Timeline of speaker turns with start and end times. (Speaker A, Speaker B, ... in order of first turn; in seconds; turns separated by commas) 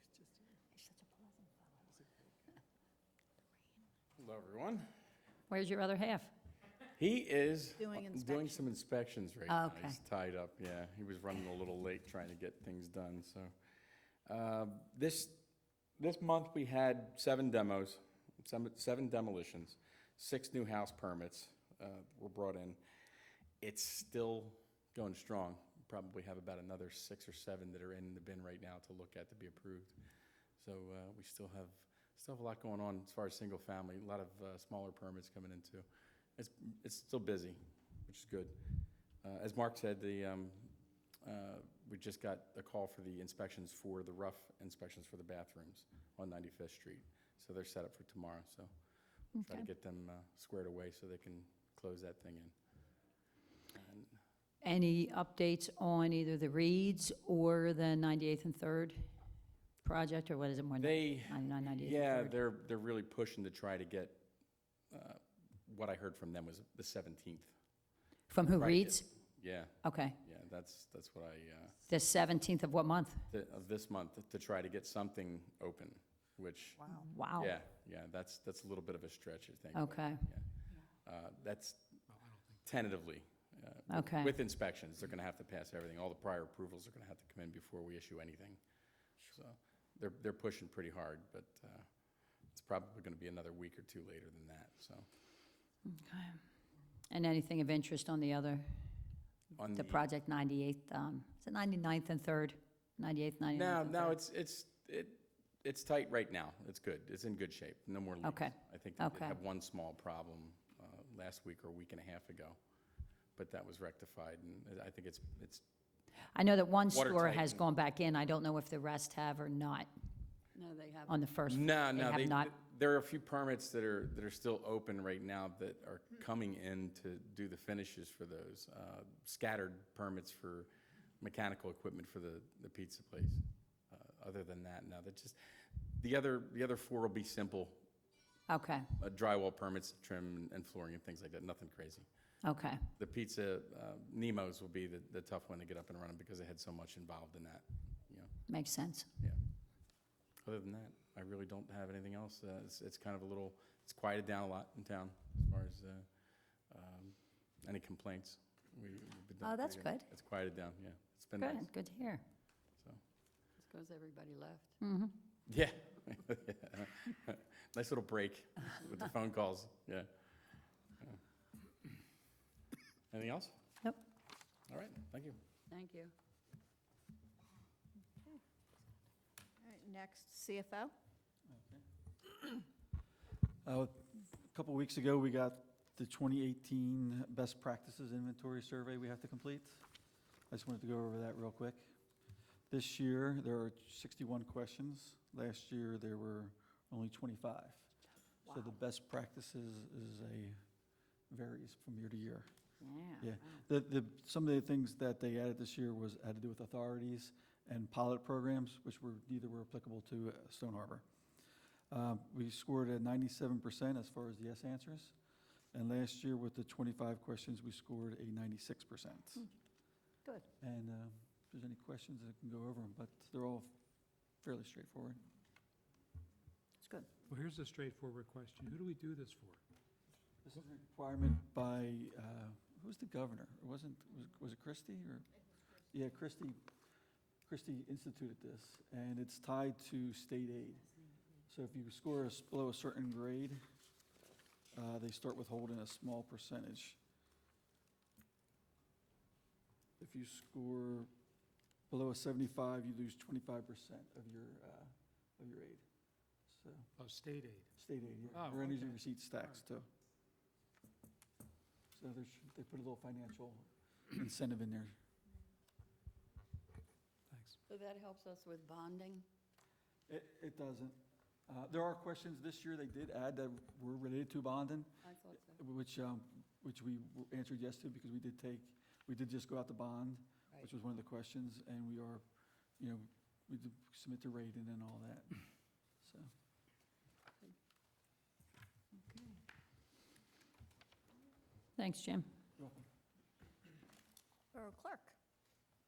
Speaker A: 4.2-4.9, Speaker B: 5.5-6.3, Speaker A: 7.0-13.5, Speaker C: 7.8-8.6, Speaker B: 9.5-10.0, Speaker A: 14.3-15.4, Speaker A: 16.0-22.8, Speaker A: 23.6-29.9, Speaker A: 30.6-35.9, Speaker A: 36.4-38.6, Speaker A: 39.2-48.7, Speaker B: 49.4-49.7, Speaker A: 49.4-52.5, Speaker A: 53.7-54.2, Speaker B: 54.6-59.1, Speaker B: 59.8-62.4, Speaker A: 60.8-64.2, Speaker A: 64.9-67.5, Speaker B: 68.3-69.1, Speaker A: 68.5-71.8, Speaker B: 69.8-70.2, Speaker B: 71.8-73.2, Speaker A: 73.3-76.8, Speaker B: 76.9-77.5, Speaker A: 77.4-80.4, Speaker B: 79.7-80.3, Speaker A: 81.0-81.8, Speaker D: 82.1-82.4, Speaker A: 82.6-88.6, Speaker B: 83.9-84.3, Speaker A: 89.2-91.9, Speaker A: 92.5-95.0, Speaker B: 95.9-96.4, Speaker B: 97.1-98.9, Speaker A: 99.5-100.0, Speaker B: 99.7-104.2, Speaker A: 103.5-112.6, Speaker B: 108.2-109.4, Speaker A: 113.3-115.6, Speaker B: 116.3-119.9, Speaker A: 116.9-117.6, Speaker E: 120.5-121.2, Speaker B: 121.1-122.5, Speaker A: 121.5-130.7, Speaker A: 131.2-135.4, Speaker A: 135.9-137.8, Speaker B: 138.5-138.8, Speaker A: 139.0-142.1, Speaker B: 142.4-142.8, Speaker A: 143.0-148.3, Speaker B: 148.5-149.1, Speaker A: 150.4-156.1, Speaker A: 156.7-161.7, Speaker B: 159.4-160.1, Speaker B: 161.4-162.2, Speaker E: 163.6-164.8, Speaker B: 164.8-165.2, Speaker A: 165.5-170.1, Speaker A: 173.1-173.5, Speaker A: 174.7-175.4, Speaker E: 175.7-176.1, Speaker C: 179.6-180.9, Speaker F: 181.5-181.8, Speaker F: 183.6-189.8, Speaker F: 190.5-191.9, Speaker F: 192.7-197.9, Speaker F: 198.4-200.6, Speaker F: 201.3-202.5, Speaker B: 202.8-203.6, Speaker F: 203.2-211.0, Speaker F: 211.9-215.1, Speaker F: 215.7-219.4, Speaker F: 220.6-223.7, Speaker F: 224.4-225.2, Speaker D: 227.3-229.6, Speaker F: 230.4-235.3, Speaker F: 235.9-236.6, Speaker F: 237.4-240.9, Speaker F: 241.5-243.6, Speaker F: 244.7-247.0, Speaker F: 250.0-251.1, Speaker F: 251.9-255.8, Speaker F: 256.5-256.9, Speaker D: 257.0-257.7, Speaker F: 257.8-259.9, Speaker D: 258.3-259.6, Speaker F: 261.9-264.9, Speaker D: 267.3-267.6, Speaker E: 267.7-269.2, Speaker F: 270.1-271.0, Speaker F: 271.5-282.2, Speaker E: 275.0-275.6, Speaker F: 282.8-285.4, Speaker F: 286.0-286.3, Speaker B: 291.8-292.2, Speaker C: 294.5-295.1